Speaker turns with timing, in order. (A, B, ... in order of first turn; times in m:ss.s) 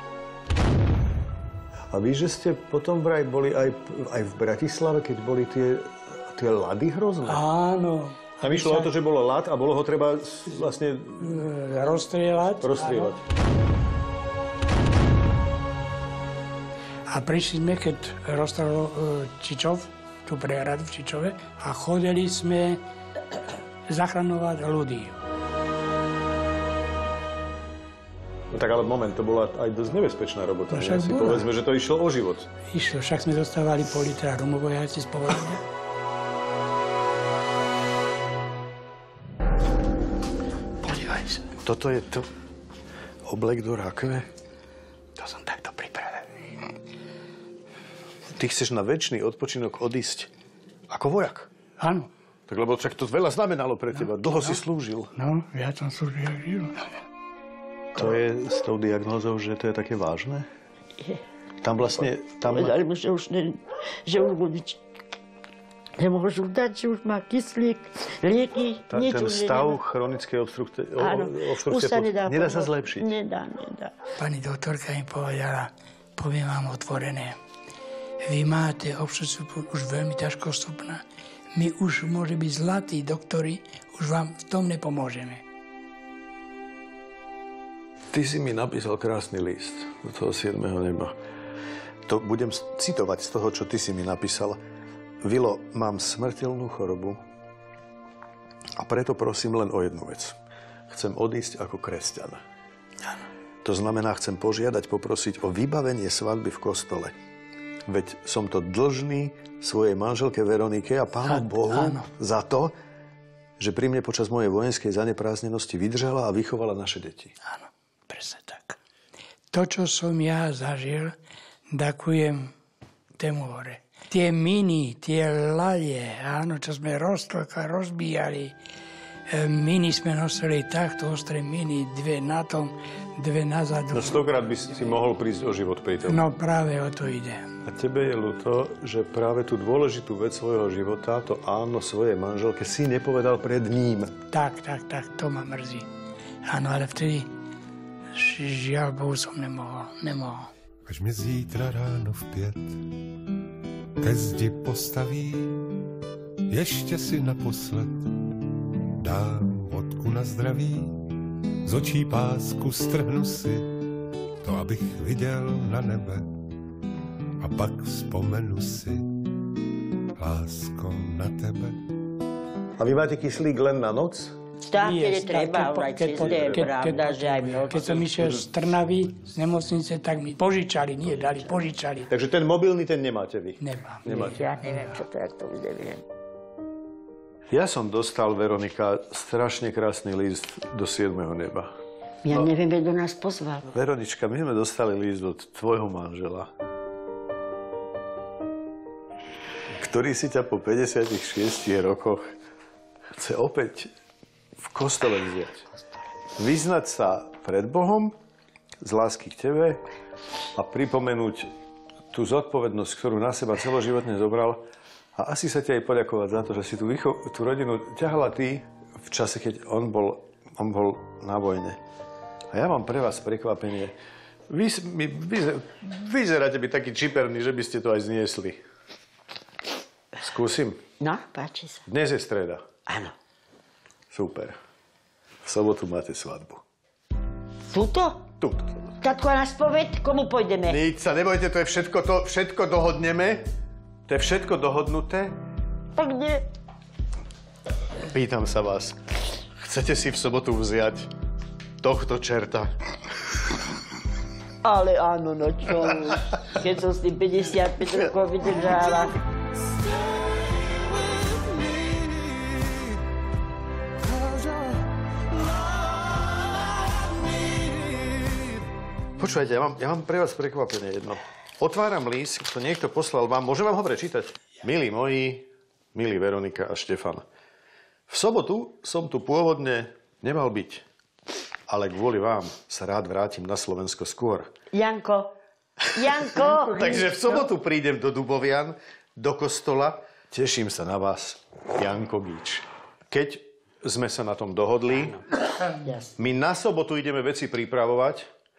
0:01.9-0:07.4 A
0:07.2-0:08.9 B
0:08.4-0:11.4 A
0:11.2-0:13.1 B
0:12.6-0:13.2 A
0:17.1-0:22.8 B
0:23.9-0:25.2 B
0:28.5-0:32.5 A
0:30.7-0:31.4 B
0:32.7-0:35.6 B
0:40.8-0:41.4 B
0:41.4-0:42.3 A
0:43.2-0:44.3 A
0:45.2-0:46.2 B
0:48.3-0:50.3 A
0:50.9-0:51.5 A
0:51.8-0:52.1 B
0:52.5-0:55.1 A
0:55.2-0:56.8 B
0:57.9-1:00.4 A
1:01.6-1:02.8 A
1:02.4-1:04.8 C
1:06.0-1:09.8 C
1:08.9-1:13.1 A
1:11.0-1:13.9 C
1:14.2-1:17.4 B
1:18.2-1:21.0 B
1:21.5-1:25.4 B
1:28.1-1:31.1 A
1:32.0-1:34.6 A
1:35.2-1:37.2 A
1:38.8-1:40.4 A
1:40.9-1:42.4 A
1:43.6-1:47.1 A
1:47.9-1:52.7 A
1:51.2-1:52.0 B
1:53.6-1:57.3 A
1:57.5-1:58.8 B
1:59.5-2:01.1 B
2:01.7-2:02.5 B
2:03.2-2:08.5 B
2:09.3-2:14.2 B
2:13.9-2:16.2 A
2:16.1-2:17.4 B
2:17.6-2:24.1 A
2:24.3-2:25.8 B
2:26.4-2:27.3 B
2:28.1-2:30.5 B
2:30.8-2:32.8 D
2:34.0-2:35.6 D
2:36.5-2:38.1 D
2:39.0-2:41.0 D
2:41.6-2:43.7 D
2:44.4-2:46.3 D
2:47.4-2:49.0 D
2:50.2-2:51.7 D
2:52.8-2:54.3 A
2:54.6-2:58.1 C
2:54.8-3:02.1 B
2:56.1-2:56.7 A
2:57.7-2:58.4 A
3:02.1-3:04.4 A
3:03.6-3:05.0 B
3:04.1-3:06.0 C
3:07.5-3:11.7 A
3:12.2-3:13.7 C
3:13.7-3:16.5 A
3:19.8-3:22.2 A
3:23.2-3:23.9 A
3:24.6-3:25.6 A
3:26.4-3:28.1 A
3:28.8-3:29.8 A
3:30.5-3:31.5 A
3:32.1-3:34.6 A
3:35.2-3:41.8 A
3:42.5-3:43.9 A
3:44.5-3:48.6 A
3:50.2-3:50.8 A
3:51.0-3:51.8 C
3:51.8-3:52.6 A
3:52.9-3:53.1 C
3:54.1-3:54.6 A
3:55.4-3:56.6 A
3:57.7-3:58.2 C
3:58.4-3:58.9 A
3:59.0-4:00.8 C
4:00.7-4:03.4 A
4:04.1-4:05.3 A
4:06.0-4:06.4 C
4:08.0-4:09.0 A
4:09.6-4:11.1 A
4:11.8-4:12.7 A
4:14.6-4:19.1 C
4:29.2-4:37.2 A
4:38.1-4:40.8 A
4:41.7-4:44.5 A
4:44.7-4:45.3 C
4:45.9-4:47.3 C
4:46.0-4:55.2 A
4:55.8-4:56.1 C
4:56.2-4:58.2 A